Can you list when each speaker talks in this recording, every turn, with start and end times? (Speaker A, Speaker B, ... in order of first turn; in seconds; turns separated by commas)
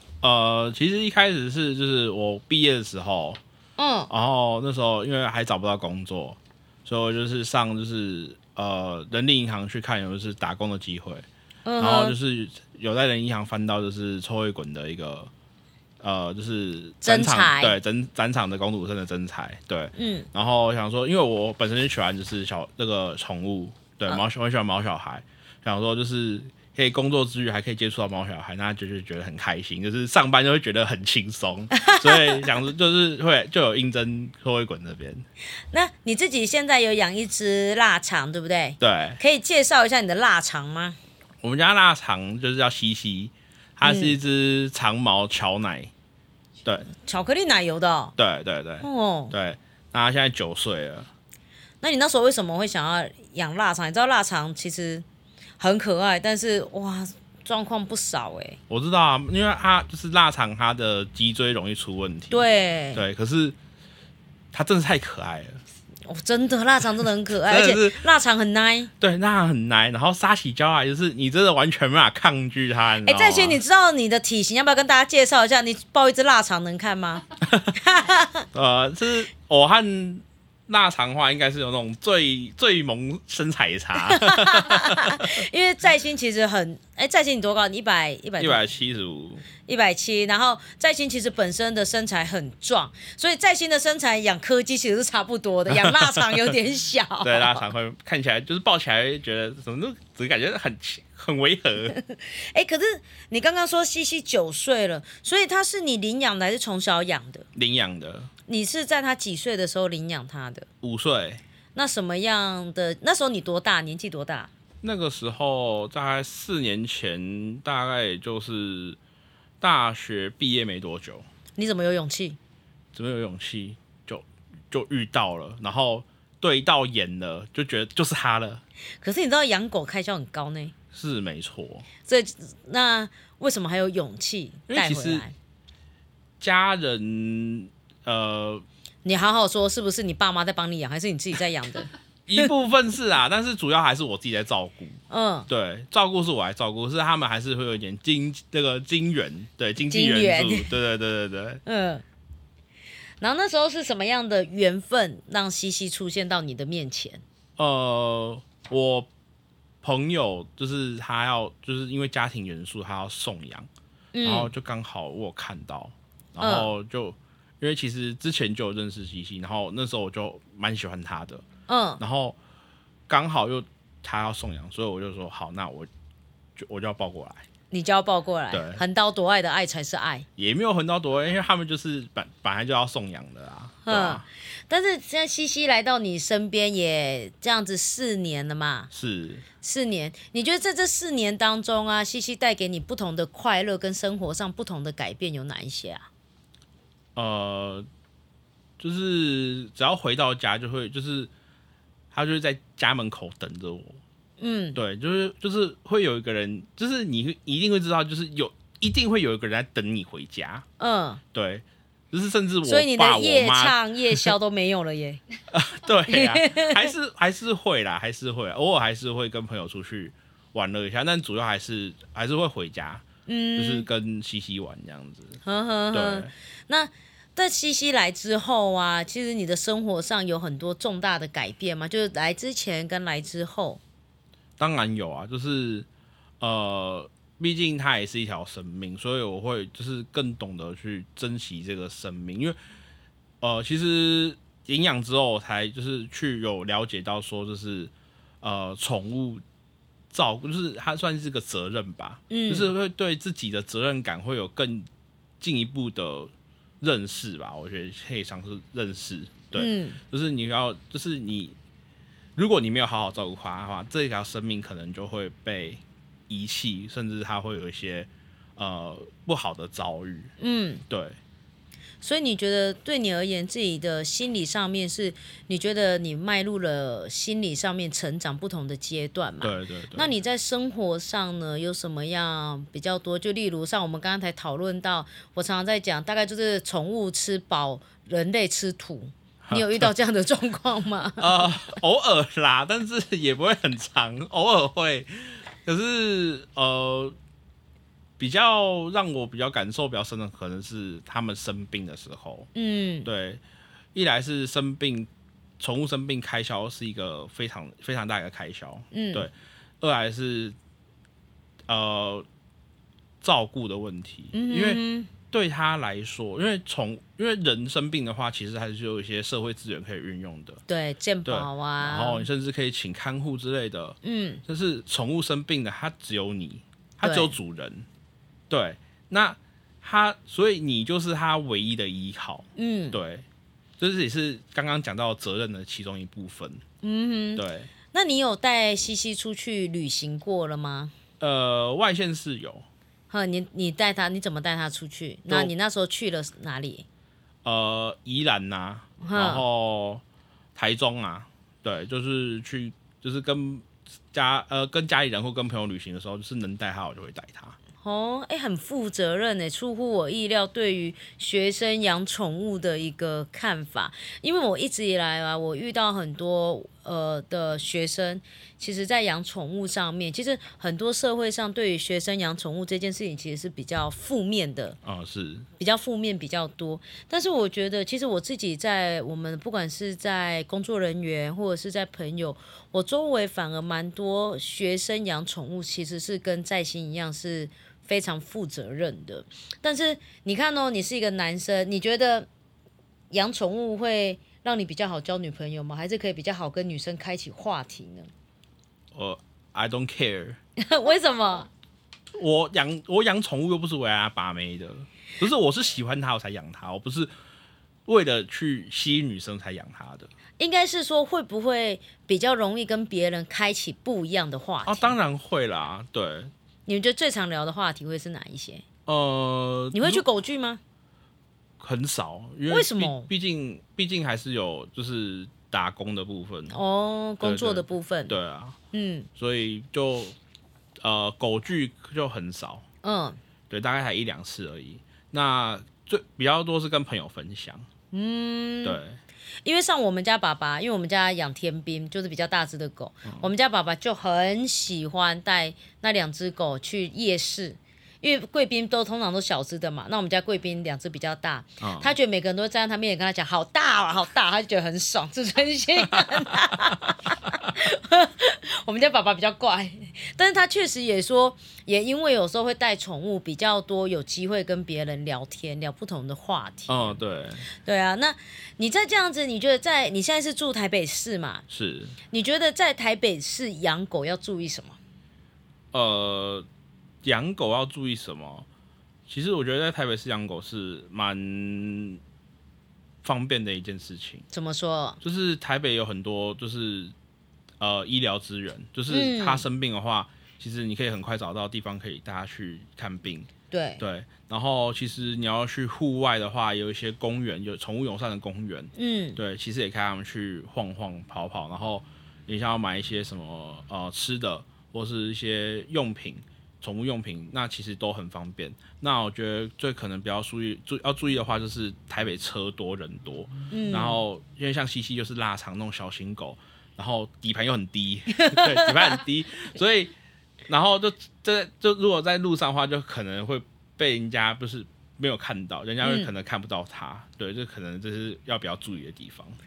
Speaker A: 0.2-3.4, Speaker B: 3.8-4.1, Speaker A: 4.1-11.2, Speaker B: 11.6-12.2, Speaker A: 11.8-15.3, Speaker A: 16.0-35.2, Speaker B: 17.0-17.8, Speaker B: 19.9-20.3, Speaker B: 31.7-32.4, Speaker B: 35.7-41.0, Speaker A: 38.8-39.2, Speaker A: 41.4-45.9, Speaker B: 43.8-44.2, Speaker B: 46.9-48.1, Speaker A: 48.2-51.1, Speaker B: 48.8-49.3, Speaker B: 51.8-55.0, Speaker B: 55.6-58.6, Speaker A: 58.7-63.5, Speaker B: 62.3-63.0, Speaker A: 64.5-65.6, Speaker B: 66.1-68.9, Speaker A: 67.5-68.0, Speaker A: 69.0-73.6, Speaker B: 73.0-78.4, Speaker A: 78.5-85.3, Speaker B: 84.0-88.6, Speaker A: 88.4-89.4, Speaker B: 89.6-97.6, Speaker A: 95.7-96.5, Speaker A: 97.2-102.0, Speaker B: 101.9-107.5, Speaker A: 107.5-108.3, Speaker B: 108.5-110.7, Speaker A: 110.8-111.4, Speaker B: 111.7-114.5, Speaker A: 114.8-119.0, Speaker A: 119.6-121.2, Speaker B: 121.6-122.4, Speaker A: 122.9-128.6, Speaker B: 129.0-130.7, Speaker A: 130.9-131.9, Speaker B: 132.0-135.3, Speaker A: 134.7-135.3, Speaker A: 136.4-138.6, Speaker B: 139.0-142.5, Speaker A: 142.3-151.6, Speaker B: 145.1-145.5, Speaker B: 149.9-150.7, Speaker B: 151.6-152.0, Speaker B: 153.2-157.2, Speaker A: 157.6-159.1, Speaker A: 159.8-163.7, Speaker B: 164.1-164.5, Speaker A: 164.2-171.4, Speaker B: 166.4-166.7, Speaker B: 171.7-172.0, Speaker A: 172.0-172.4, Speaker A: 173.1-175.9, Speaker A: 176.6-177.4, Speaker B: 177.7-180.2, Speaker A: 178.5-178.8, Speaker A: 180.4-184.2, Speaker B: 183.8-188.9, Speaker A: 188.9-189.4, Speaker B: 189.6-196.1, Speaker A: 197.2-197.9, Speaker A: 198.8-201.3, Speaker A: 202.1-204.0, Speaker B: 204.4-204.8, Speaker A: 204.7-210.7, Speaker B: 210.8-211.2, Speaker A: 211.3-214.3, Speaker B: 212.6-215.2, Speaker A: 215.5-223.0, Speaker B: 216.1-216.9, Speaker B: 223.2-223.9, Speaker A: 223.6-225.4, Speaker B: 225.4-233.8, Speaker A: 225.9-226.3, Speaker A: 234.6-235.8, Speaker A: 236.4-242.6, Speaker A: 243.4-247.9, Speaker A: 248.4-249.4, Speaker A: 250.1-254.9, Speaker B: 252.3-252.7, Speaker A: 255.4-261.6, Speaker B: 259.5-260.0, Speaker A: 262.4-270.3, Speaker B: 270.4-270.8, Speaker A: 270.9-271.2, Speaker B: 272.0-291.4, Speaker A: 279.4-280.1, Speaker A: 289.4-289.9, Speaker A: 291.2-297.1, Speaker A: 298.2-302.5, Speaker B: 302.5-303.1, Speaker A: 303.0-303.4, Speaker A: 303.9-310.6, Speaker B: 308.9-309.3, Speaker A: 311.7-312.2, Speaker A: 313.2-320.6, Speaker B: 314.3-315.1, Speaker B: 320.7-322.3, Speaker A: 321.2-327.9, Speaker B: 324.0-324.4, Speaker B: 327.0-327.4, Speaker A: 328.5-333.2, Speaker B: 332.6-333.0, Speaker A: 333.8-336.6, Speaker B: 336.8-340.9, Speaker A: 337.4-337.7, Speaker A: 341.2-342.6, Speaker B: 343.1-346.9, Speaker A: 347.4-350.0, Speaker B: 349.0-349.4, Speaker A: 350.6-357.6, Speaker B: 357.8-374.8, Speaker A: 374.8-375.5, Speaker B: 375.6-392.3, Speaker B: 393.1-398.1, Speaker A: 398.9-400.4, Speaker B: 400.6-401.5, Speaker A: 402.1-407.1, Speaker A: 407.9-410.1, Speaker B: 410.4-415.0, Speaker A: 414.6-416.3, Speaker B: 416.6-418.6, Speaker A: 418.9-420.1, Speaker B: 419.7-420.6, Speaker A: 421.6-426.6, Speaker B: 422.5-423.1, Speaker B: 426.5-428.2, Speaker A: 427.2-428.6, Speaker B: 428.7-429.1, Speaker A: 429.2-430.1, Speaker A: 430.8-432.6, Speaker B: 432.8-433.2, Speaker A: 433.5-437.6, Speaker B: 437.9-438.8, Speaker A: 438.6-439.0, Speaker B: 439.4-467.0, Speaker A: 451.6-451.9, Speaker A: 466.7-467.5, Speaker B: 467.6-471.4, Speaker A: 471.5-472.0, Speaker B: 472.1-474.8, Speaker A: 475.7-476.5, Speaker A: 477.0-478.5, Speaker A: 479.1-482.0, Speaker A: 483.0-484.2, Speaker B: 484.3-485.0, Speaker A: 485.0-486.9, Speaker A: 487.6-493.3, Speaker B: 488.9-489.5, Speaker B: 493.5-493.8, Speaker A: 493.8-519.9, Speaker B: 498.8-499.2, Speaker B: 513.5-514.0, Speaker B: 518.3-519.0, Speaker A: 520.5-529.4, Speaker B: 525.8-526.1